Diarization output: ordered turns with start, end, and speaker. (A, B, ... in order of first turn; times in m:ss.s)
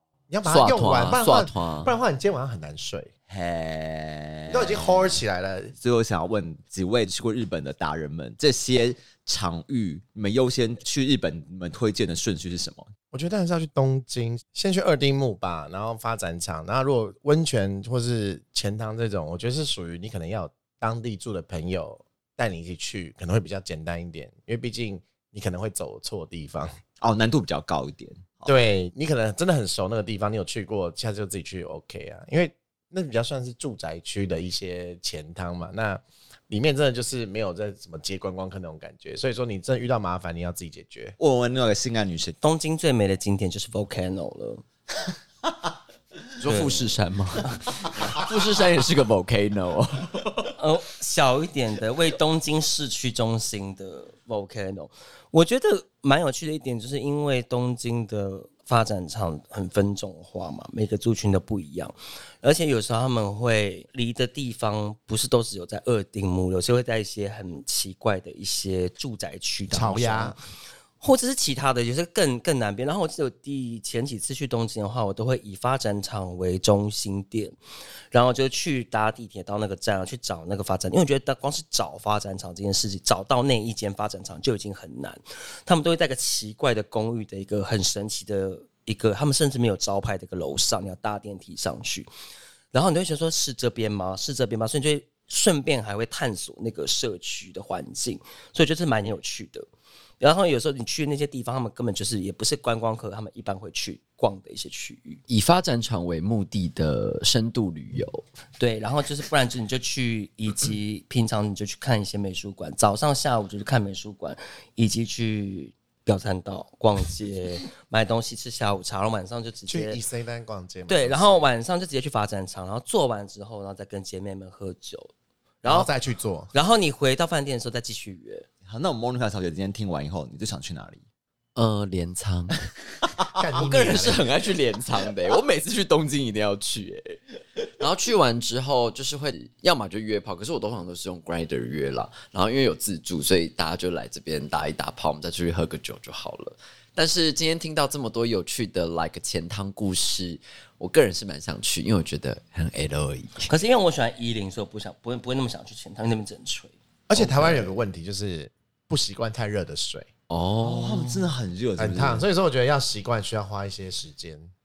0:00.3-0:03.1 A
0:00.4-0:01.9 B
0:03.3-0:05.2 C
0:04.5-0:05.7 A
0:05.8-0:12.9 C
0:13.1-0:26.7 A
0:27.0-0:28.5 C
0:28.4-0:41.2 A
0:41.2-0:42.4 C
0:42.4-0:44.6 D
0:46.4-0:50.5 B
0:46.4-0:46.9 D
0:50.6-1:10.4 D
1:09.7-1:10.4 A
1:11.0-1:17.6 D
1:18.1-1:32.1 D
1:32.7-1:39.7 D
1:40.2-1:45.2 D
1:45.3-1:48.2 B
1:48.6-2:00.0 D
1:59.7-2:01.5 A
2:00.9-2:05.1 D
2:05.6-2:05.9 D
2:05.6-2:06.5 A
2:06.5-2:08.5 D
2:08.7-2:11.0 C
2:11.6-2:12.6 B
2:13.4-2:14.3 A
2:13.5-2:33.5 B
2:33.5-2:36.8 D
2:37.1-2:40.1 A
2:40.3-2:41.3 B
2:40.6-2:42.3 C
2:41.8-2:44.5 A